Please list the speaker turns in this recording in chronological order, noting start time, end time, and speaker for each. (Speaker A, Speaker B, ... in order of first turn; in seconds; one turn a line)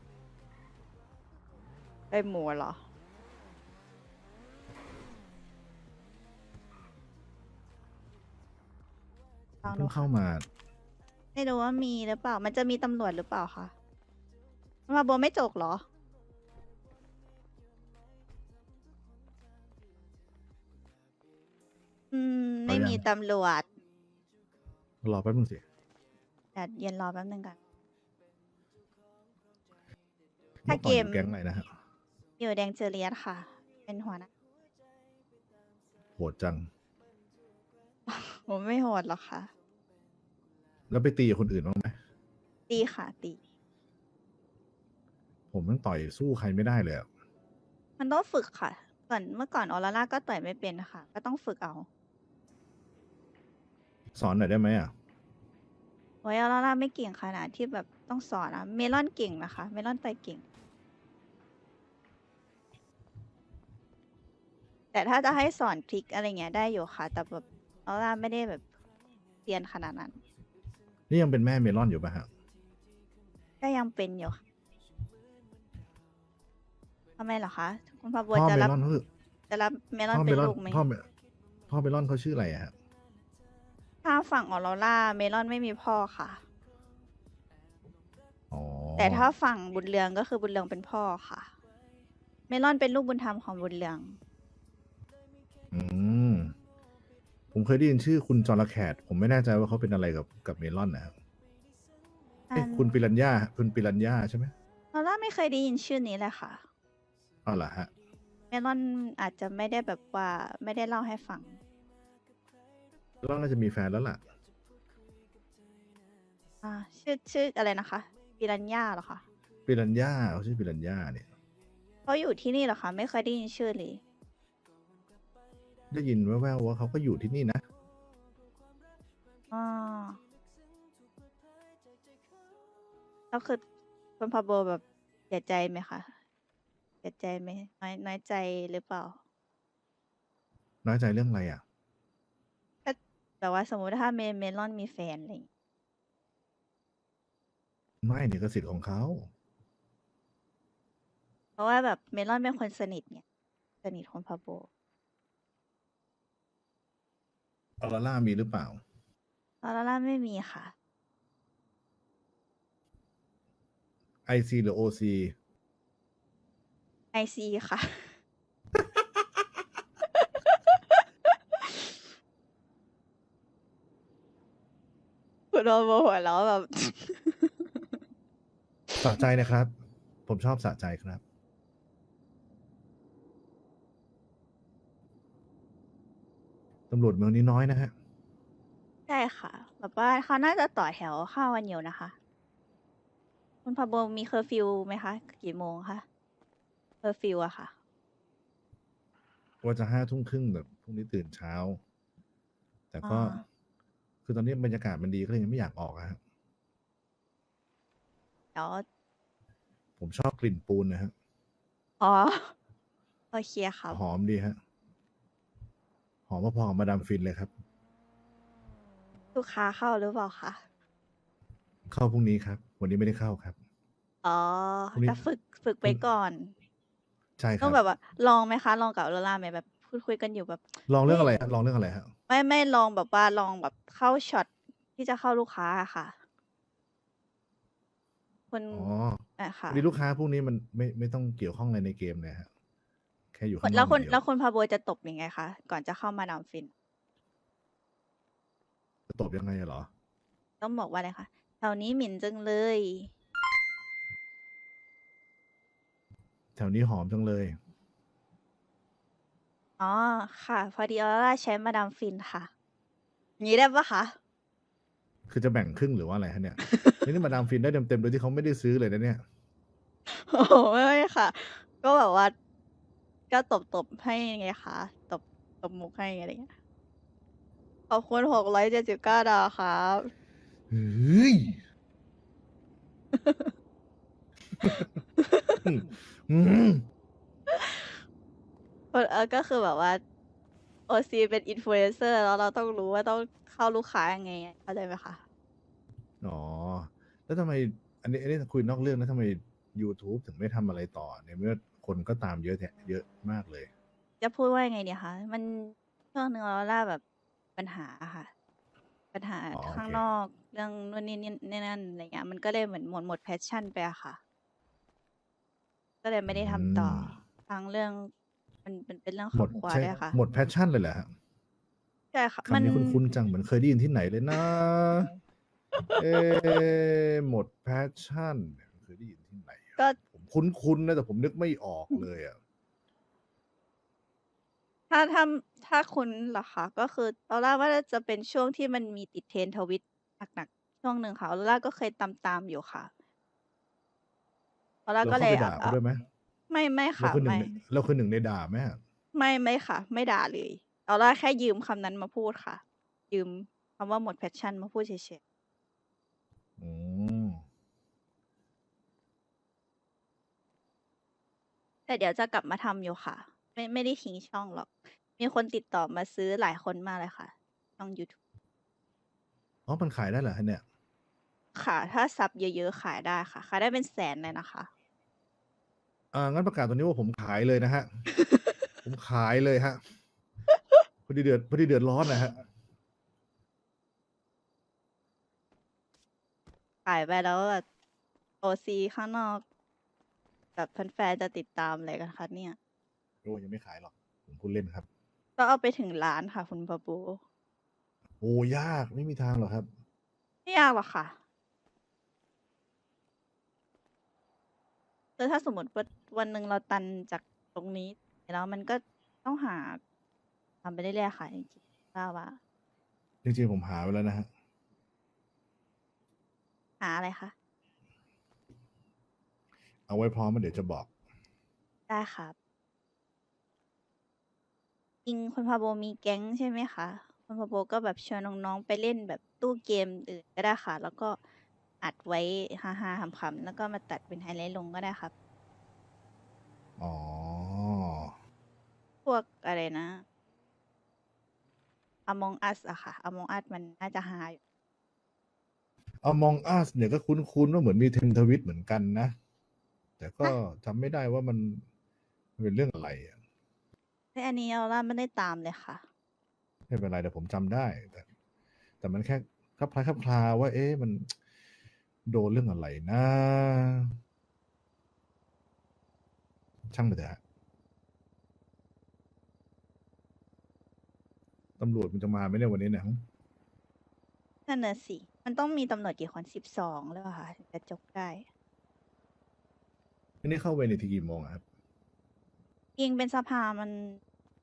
Speaker A: 2.1-2.8
Speaker A: 9.6-10.1
Speaker B: 9.7-10.5
Speaker A: 11.3-13.7
Speaker A: 14.9-15.8
Speaker A: 22.1-23.7
Speaker B: 22.7-23.1
Speaker B: 25.0-25.6
Speaker A: 26.6-27.6
Speaker A: 30.7-31.3
Speaker B: 30.7-31.7
Speaker A: 32.4-34.3
Speaker B: 36.2-36.7
Speaker A: 38.1-39.5
Speaker B: 40.9-42.0
Speaker A: 42.7-43.4
Speaker B: 45.5-47.1
Speaker A: 48.0-51.9
Speaker B: 54.1-54.9
Speaker A: 56.2-60.4
Speaker A: 64.9-68.7
Speaker A: 69.5-70.2
Speaker B: 71.1-72.3
Speaker A: 73.6-74.4
Speaker A: 77.2-78.8
Speaker B: 78.3-79.1
Speaker A: 79.5-80.9
Speaker B: 80.1-81.1
Speaker B: 81.7-82.7
Speaker A: 84.0-86.4
Speaker B: 88.5-89.3
Speaker A: 89.0-91.5
Speaker A: 92.5-94.2
Speaker B: 95.7-96.5
Speaker B: 97.5-101.1
Speaker A: 102.5-102.9
Speaker B: 102.5-104.5
Speaker A: 104.9-106.6
Speaker B: 107.5-107.9
Speaker A: 108.5-111.6
Speaker B: 113.2-114.2
Speaker A: 116.6-119.2
Speaker B: 119.7-121.3
Speaker A: 122.1-124.0
Speaker B: 125.9-127.6
Speaker A: 129.5-130.2
Speaker A: 133.3-133.6
Speaker A: 134.2-136.1
Speaker A: 137.0-139.2
Speaker B: 140.8-141.6
Speaker A: 142.8-145.5
Speaker B: 148.0-149.3
Speaker A: 151.6-153.2
Speaker A: 153.8-154.7
Speaker B: 157.8-158.8
Speaker A: 159.6-160.7
Speaker B: 164.3-165.3
Speaker A: 167.1-168.1
Speaker A: 170.1-172.0
Speaker A: 175.5-177.9
Speaker B: 179.0-179.7
Speaker B: 180.3-181.2
Speaker B: 186.9-187.9
Speaker A: 189.1-192.2
Speaker A: 193.7-196.1
Speaker A: 197.0-197.7
Speaker B: 199.6-201.8
Speaker B: 202.9-203.4
Speaker A: 203.0-203.4
Speaker B: 204.2-206.2
Speaker A: 208.6-208.8
Speaker B: 210.0-211.1
Speaker A: 212.0-212.5
Speaker A: 213.3-214.0
Speaker B: 213.9-214.6
Speaker B: 216.3-217.5
Speaker A: 219.3-220.6
Speaker B: 221.9-223.6
Speaker A: 224.2-226.5
Speaker B: 224.9-225.2
Speaker B: 227.4-227.8
Speaker A: 227.6-231.4
Speaker B: 230.9-232.1
Speaker A: 232.3-236.2
Speaker A: 238.5-239.8
Speaker B: 238.7-242.5
Speaker B: 243.3-244.2
Speaker A: 243.6-246.7
Speaker B: 249.1-249.9
Speaker A: 250.6-253.1
Speaker B: 256.6-257.6
Speaker A: 259.8-262.5
Speaker A: 263.4-264.2
Speaker B: 265.3-269.2
Speaker A: 266.6-267.1
Speaker A: 270.1-272.3
Speaker A: 273.3-276.5
Speaker A: 277.9-280.1
Speaker B: 280.7-281.6
Speaker A: 283.1-283.5
Speaker B: 284.6-284.9
Speaker A: 285.2-285.7
Speaker B: 285.6-286.8
Speaker A: 287.5-287.9
Speaker A: 288.9-290.0
Speaker A: 290.9-295.2
Speaker B: 296.2-303.7
Speaker A: 304.2-307.0
Speaker A: 307.6-308.3
Speaker A: 309.1-314.2
Speaker B: 309.5-310.0
Speaker A: 316.0-318.1
Speaker B: 316.3-317.2
Speaker A: 318.6-320.2
Speaker B: 319.3-321.1
Speaker A: 322.1-323.1
Speaker B: 322.5-325.1
Speaker A: 325.9-326.5
Speaker B: 326.0-332.4
Speaker A: 334.9-342.9
Speaker A: 344.9-345.8
Speaker B: 345.0-346.0
Speaker A: 346.5-347.6
Speaker B: 347.0-348.8
Speaker A: 349.1-355.2
Speaker B: 356.6-357.4
Speaker A: 361.9-368.1
Speaker B: 369.7-370.6
Speaker A: 371.6-374.7
Speaker B: 376.1-377.9
Speaker A: 378.2-378.5
Speaker B: 378.8-379.8
Speaker B: 381.1-382.4
Speaker A: 386.9-387.6
Speaker A: 388.4-389.4
Speaker A: 390.6-392.6
Speaker B: 393.2-394.9
Speaker A: 395.4-397.2
Speaker B: 398.2-399.7
Speaker A: 400.5-401.2
Speaker A: 405.2-409.8
Speaker A: 410.6-412.4
Speaker B: 413.2-414.3
Speaker A: 416.8-417.3
Speaker B: 419.9-420.9
Speaker A: 421.9-422.4
Speaker A: 425.1-431.2
Speaker A: 431.8-435.1
Speaker B: 436.8-438.1
Speaker A: 439.1-440.0
Speaker A: 442.1-444.4
Speaker B: 446.0-449.1
Speaker B: 450.0-451.6
Speaker B: 452.4-453.2
Speaker A: 454.1-455.8
Speaker B: 456.7-458.1
Speaker B: 458.8-461.1
Speaker B: 462.1-463.9
Speaker B: 466.7-467.2
Speaker B: 471.6-473.0
Speaker A: 474.5-478.2
Speaker B: 480.2-481.4
Speaker A: 482.8-484.0